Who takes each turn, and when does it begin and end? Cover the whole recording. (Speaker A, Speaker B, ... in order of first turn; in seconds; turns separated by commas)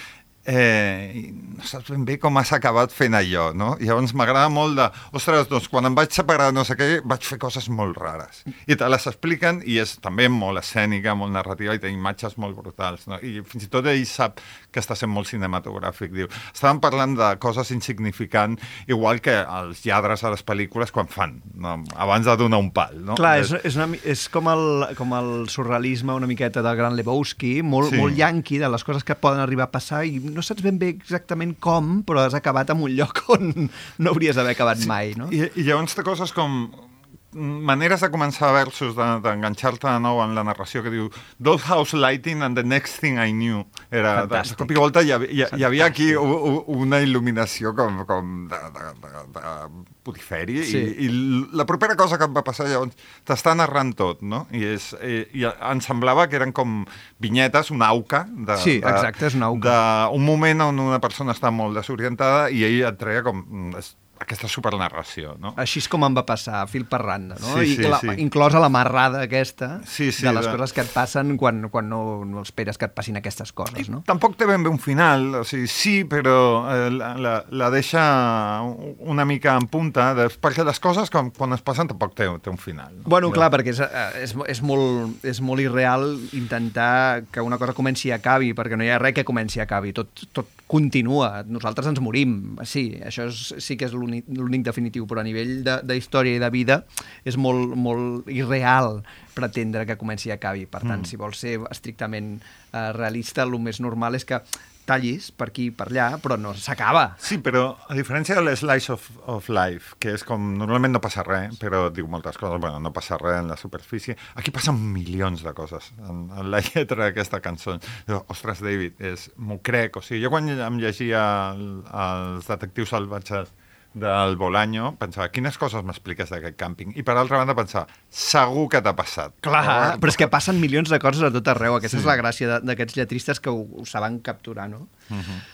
Speaker A: 0.4-23.5, Speaker B: 23.1-35.3, Speaker A: 27.8-28.2, Speaker A: 35.3-65.6, Speaker B: 44.1-44.8, Speaker B: 50.6-50.9, Speaker B: 58.5-59.8, Speaker B: 65.6-74.0, Speaker A: 67.4-68.2, Speaker A: 69.8-70.6, Speaker A: 73.7-83.5, Speaker B: 83.0-107.2, Speaker A: 100.8-101.1, Speaker A: 107.2-130.4, Speaker B: 129.4-134.9, Speaker A: 131.8-132.2, Speaker A: 135.1-135.4